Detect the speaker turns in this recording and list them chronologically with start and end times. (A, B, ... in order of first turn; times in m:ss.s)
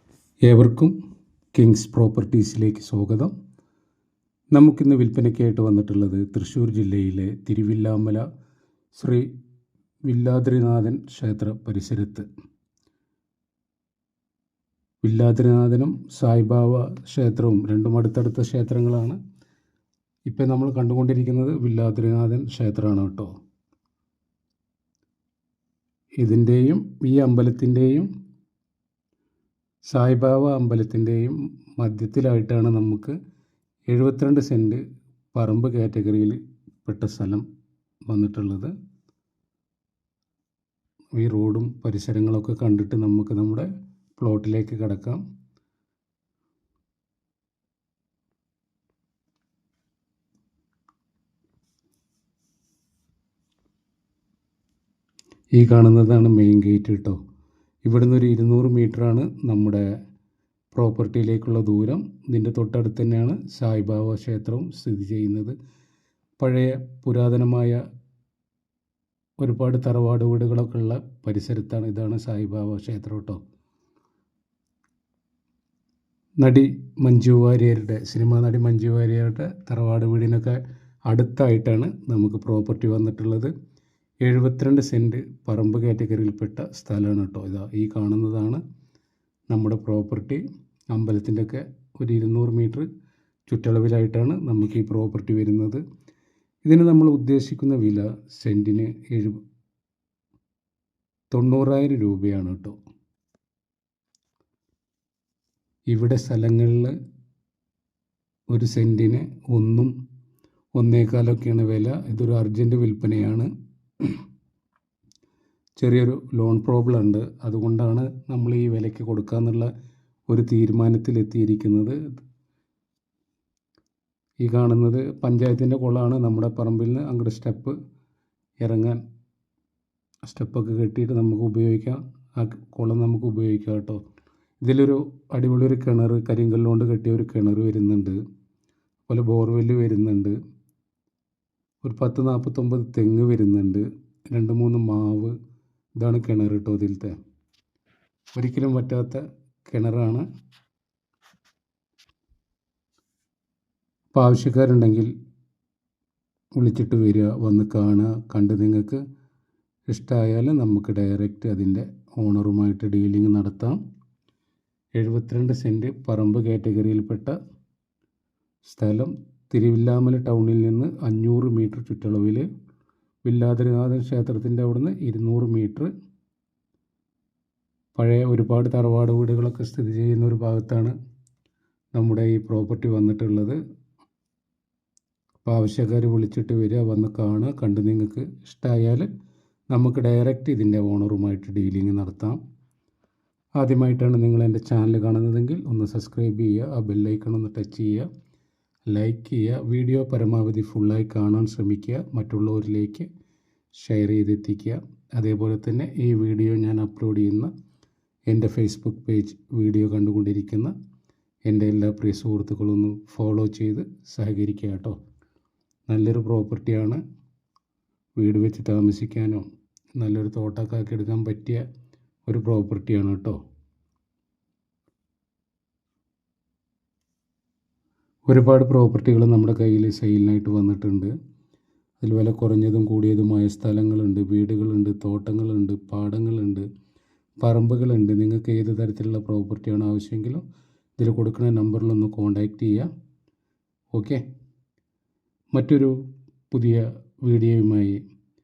0:00.4-0:00.9 A
0:01.5-0:03.3 A
0:04.5-0:08.2 A
0:09.0-0:09.3 A
0:10.1-0:12.2 A
0:15.0-0:19.2 A
0:20.3-0:23.3 A
0:26.2-0:28.1 A
0:29.9-0:33.1 A
0:33.9-0:34.8 A
0:35.3-0:37.4 A
0:38.1-0:38.7 A
0:41.2-0:43.6 A
0:44.2-0:45.2 A
0:55.6-0:57.2 A
0:57.8-0:59.8 A
1:00.7-1:05.5 A
1:06.4-1:07.8 A
1:09.4-1:13.4 A
1:16.4-1:23.5 A
1:24.2-1:28.6 A
1:29.5-1:32.8 A
1:33.5-1:35.8 A
1:36.6-1:39.4 A
1:41.3-1:42.8 A
1:45.9-1:46.9 A
1:48.5-1:49.9 A
1:50.8-1:53.5 A
1:55.8-1:59.7 A
2:00.3-2:02.0 A
2:04.4-2:07.8 A
2:08.6-2:09.0 A
2:10.2-2:14.0 A
2:14.6-2:18.2 A
2:19.1-2:20.4 A
2:21.8-2:25.3 A
2:26.0-2:27.2 A
2:28.3-2:30.2 A
2:34.1-2:35.1 A
2:36.6-2:39.0 A
2:39.9-2:43.8 A
2:45.0-2:47.3 A
2:48.6-2:52.4 A
2:53.2-2:55.9 A
2:58.0-3:00.9 A
3:01.9-3:03.6 A
3:05.4-3:09.1 A
3:09.7-3:12.4 A
3:13.6-3:18.1 A
3:18.9-3:23.1 A
3:23.7-3:27.5 A
3:28.3-3:30.7 A
3:31.5-3:35.0 A
3:35.9-3:37.0 A
3:38.2-3:39.4 A
3:40.0-3:41.6 A
3:42.3-3:43.4 A
3:48.3-3:51.1 A
3:52.0-3:56.6 A
3:57.4-4:00.4 A
4:01.0-4:02.9 A
4:03.9-4:04.2 A
4:05.5-4:05.9 A
4:06.5-4:08.0 A